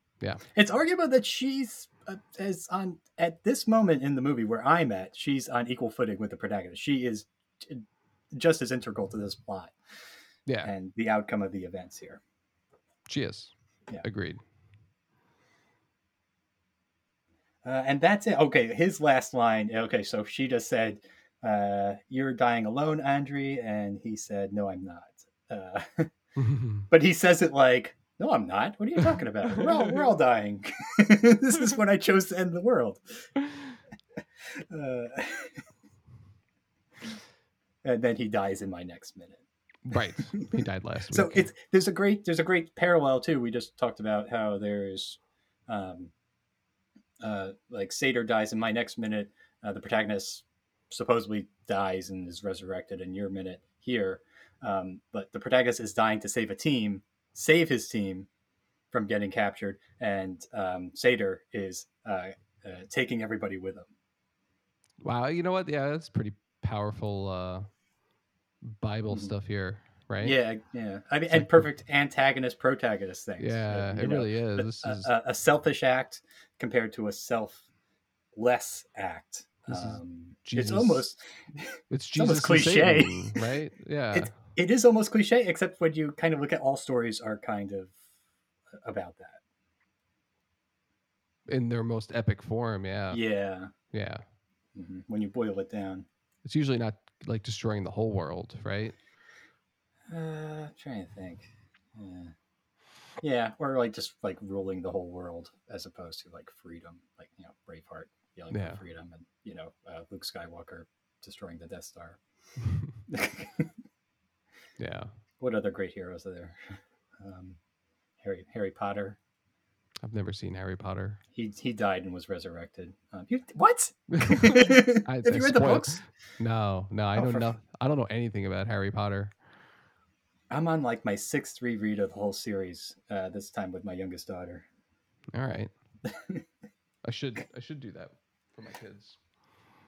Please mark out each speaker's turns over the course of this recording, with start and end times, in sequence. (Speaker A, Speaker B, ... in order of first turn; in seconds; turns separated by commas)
Speaker A: 0.5-9.8, Speaker B: 10.5-10.7, Speaker A: 10.6-12.2, Speaker B: 13.1-14.4, Speaker A: 17.6-26.1, Speaker B: 26.4-26.9, Speaker A: 26.9-33.3, Speaker B: 29.6-29.9, Speaker B: 33.5-33.7, Speaker A: 34.7-35.6, Speaker A: 37.8-39.4, Speaker B: 39.9-41.5, Speaker A: 40.3-46.1, Speaker A: 47.2-58.3, Speaker A: 58.9-63.9, Speaker B: 65.0-67.7, Speaker B: 68.8-70.4, Speaker A: 70.2-77.7, Speaker B: 71.3-71.6, Speaker B: 73.4-75.1, Speaker A: 78.3-83.4, Speaker B: 79.7-81.1, Speaker B: 81.9-84.3, Speaker A: 84.1-88.0, Speaker A: 88.8-89.4, Speaker B: 91.5-93.2, Speaker A: 93.1-93.7, Speaker B: 93.9-94.2, Speaker A: 94.8-96.1, Speaker B: 96.5-99.0, Speaker A: 100.1-102.3, Speaker A: 103.2-112.2, Speaker B: 108.5-108.8, Speaker A: 113.1-113.7, Speaker B: 114.8-115.1, Speaker A: 115.4-117.6, Speaker A: 118.2-119.2, Speaker B: 120.0-121.2, Speaker A: 121.3-126.0, Speaker B: 124.1-129.3, Speaker A: 127.2-127.5, Speaker A: 130.5-134.7, Speaker B: 135.3-135.7, Speaker A: 136.1-136.4, Speaker B: 137.1-139.2